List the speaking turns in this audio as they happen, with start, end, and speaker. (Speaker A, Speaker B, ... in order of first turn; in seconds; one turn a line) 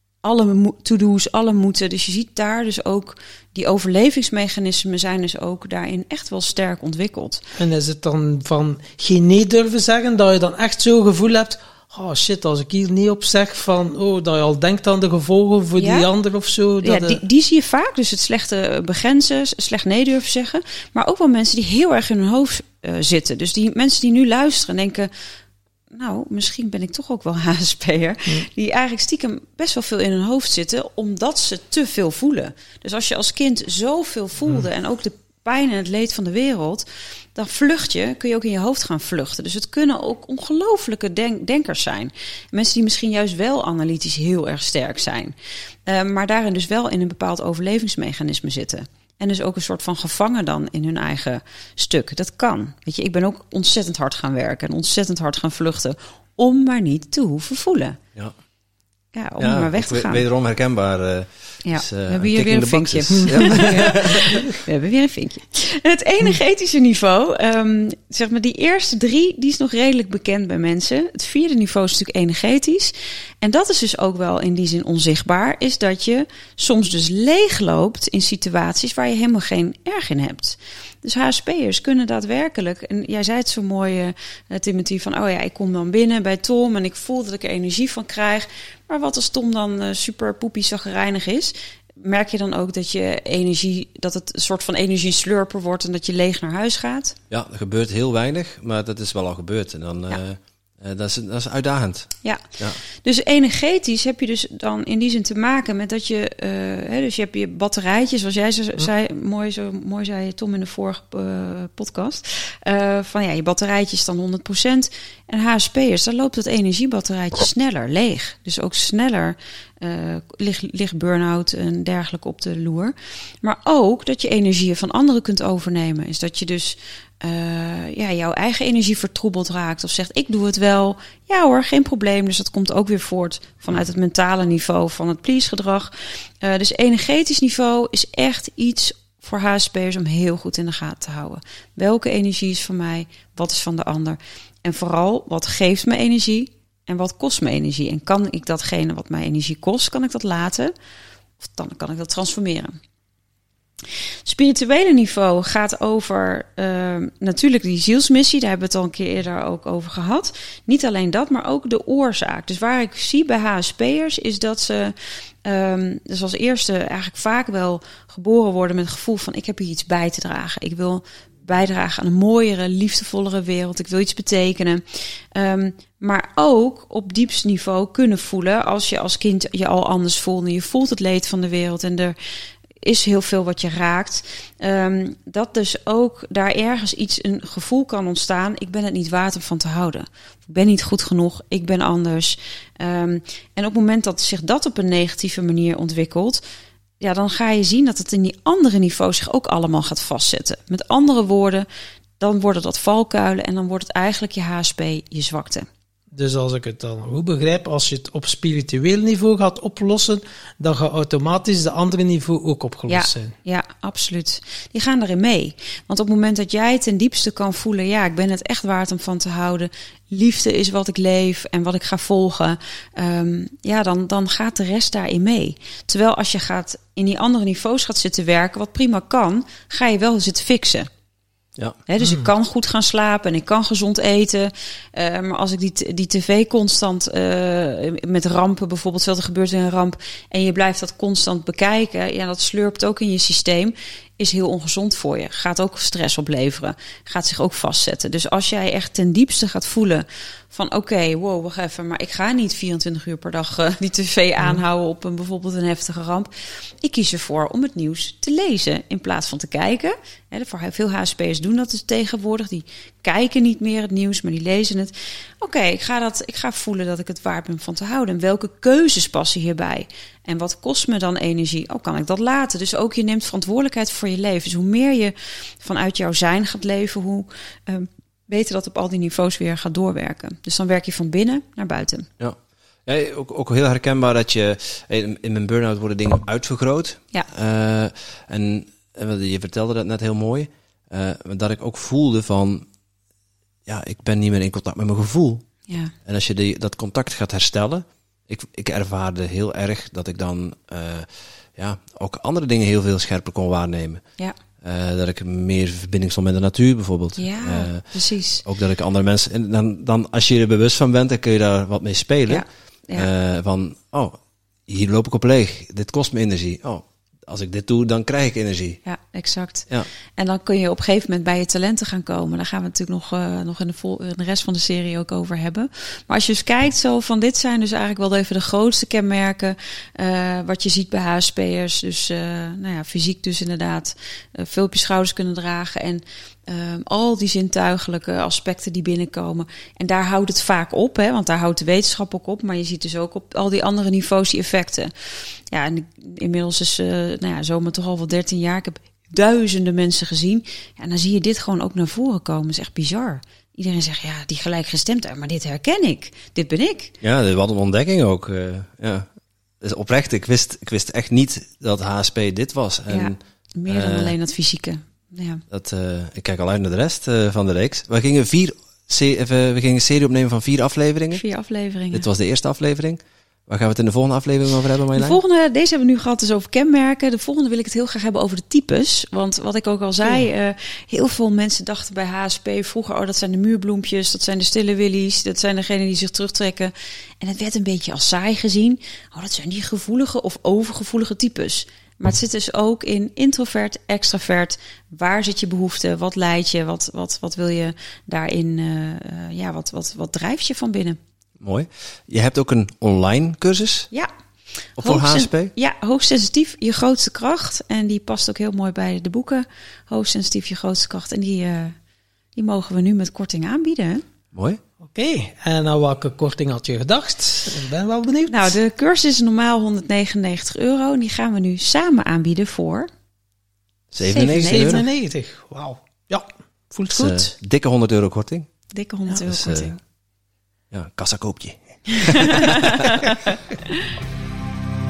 Speaker A: 0.2-7.4
Speaker B: 7.6-17.2
Speaker A: 15.8-16.1
Speaker A: 16.8-25.1
Speaker A: 25.9-45.3
Speaker A: 45.9-58.0
Speaker A: 59.1-60.2
Speaker C: 59.4-64.4
Speaker A: 61.6-97.2
Speaker B: 63.3-63.7
Speaker C: 97.3-102.8
Speaker A: 103.0-150.7
Speaker A: 151.4-152.8
Speaker A: 154.2-174.8
Speaker A: 175.3-182.2
Speaker A: 182.8-196.4
Speaker A: 197.0-201.7
Speaker A: 202.2-205.7
Speaker B: 206.1-213.3
Speaker A: 212.9-230.9
Speaker A: 231.9-282.1
Speaker B: 232.0-232.3
Speaker C: 282.2-292.6
Speaker C: 293.7-295.4
Speaker A: 295.7-295.9
Speaker C: 296.0-304.0
Speaker C: 304.6-307.9
Speaker A: 307.2-308.4
Speaker C: 308.4-314.1
Speaker A: 312.3-313.1
Speaker C: 314.7-318.8
Speaker A: 318.8-344.9
Speaker A: 345.5-356.9
Speaker C: 357.0-359.1
Speaker C: 359.6-363.2
Speaker A: 362.9-365.4
Speaker C: 363.7-364.1
Speaker C: 365.5-371.2
Speaker A: 371.1-372.1
Speaker C: 371.9-375.2
Speaker A: 374.9-401.0
Speaker C: 401.4-403.9
Speaker C: 404.8-405.5
Speaker A: 404.8-411.7
Speaker A: 412.4-414.0
Speaker C: 414.3-414.6
Speaker B: 414.9-418.6
Speaker A: 418.3-422.9
Speaker C: 423.9-424.8
Speaker A: 424.0-424.8
Speaker B: 424.3-427.3
Speaker C: 426.9-428.5
Speaker A: 428.7-429.8
Speaker C: 429.2-429.8
Speaker C: 430.7-432.8
Speaker A: 431.9-433.4